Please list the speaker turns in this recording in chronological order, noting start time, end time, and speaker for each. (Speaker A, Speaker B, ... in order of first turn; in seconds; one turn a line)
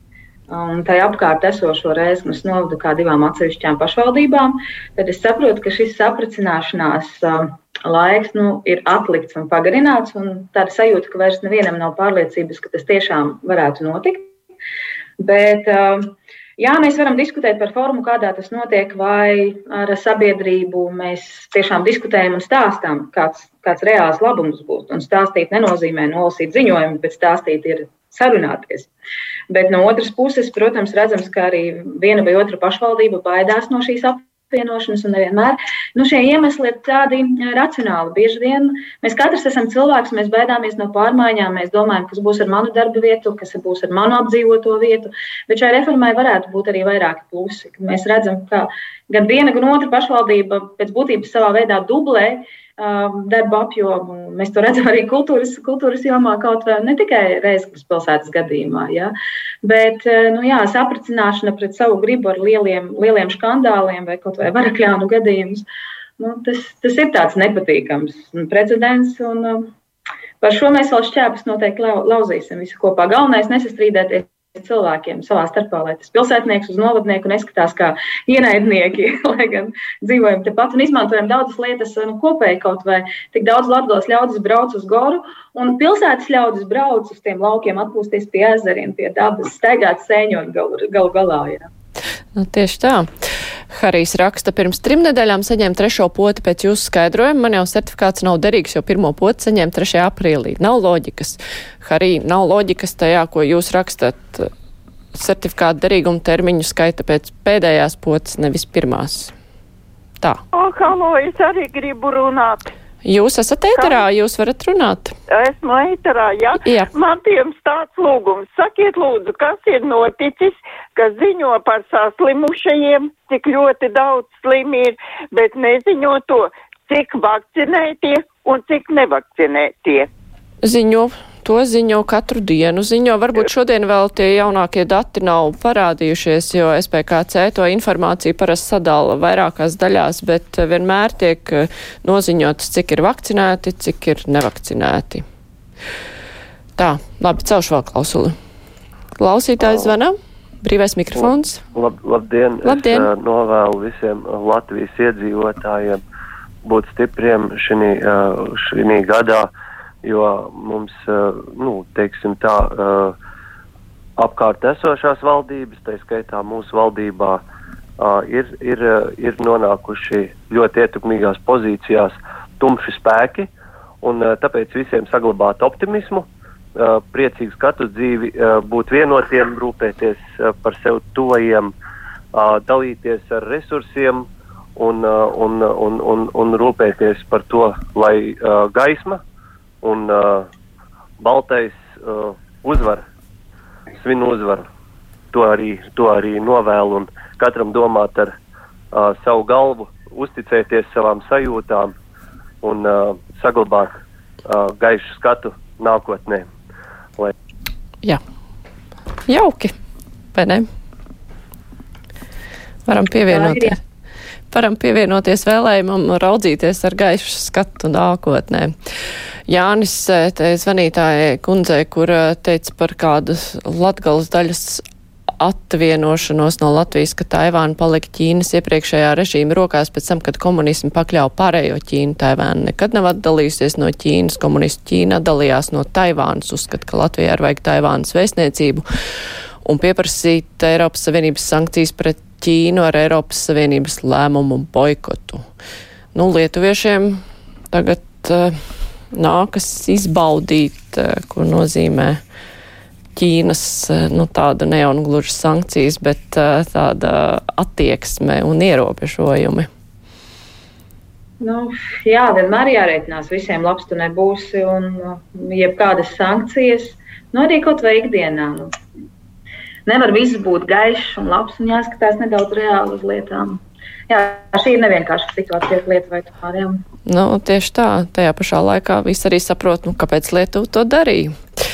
Speaker A: 0.5-14.3
Speaker A: 15.2-28.9
Speaker A: 29.5-65.6
Speaker A: 66.2-69.7
Speaker A: 70.4-91.7
Speaker B: 92.3-93.1
Speaker B: 93.7-104.5
Speaker B: 105.1-109.3
Speaker C: 110.5-112.7
Speaker B: 113.0-115.1
Speaker C: 113.7-114.0
Speaker C: 115.3-130.1
Speaker B: 116.6-116.9
Speaker B: 130.6-145.2
Speaker B: 146.8-148.3
Speaker B: 149.2-151.6
Speaker D: 149.6-149.9
Speaker D: 151.2-156.0
Speaker B: 152.6-153.1
Speaker D: 156.6-159.5
Speaker D: 160.0-163.1
Speaker D: 164.2-167.4
Speaker D: 168.0-173.5
Speaker D: 174.0-181.7
Speaker D: 182.3-189.2
Speaker D: 189.8-190.5
Speaker D: 191.2-193.0
Speaker D: 194.0-194.7
Speaker D: 195.3-198.3
Speaker D: 198.9-201.9
Speaker D: 202.6-206.5
Speaker B: 209.3-209.7
Speaker B: 210.3-210.7
Speaker B: 212.8-213.8
Speaker A: 213.3-213.8
Speaker B: 214.5-218.7
Speaker B: 219.5-224.8
Speaker B: 225.4-238.8
Speaker B: 239.6-245.4
Speaker B: 246.1-248.6
Speaker B: 249.1-252.2
Speaker B: 253.1-259.7
Speaker A: 261.4-268.7
Speaker A: 269.9-276.8
Speaker B: 277.1-281.4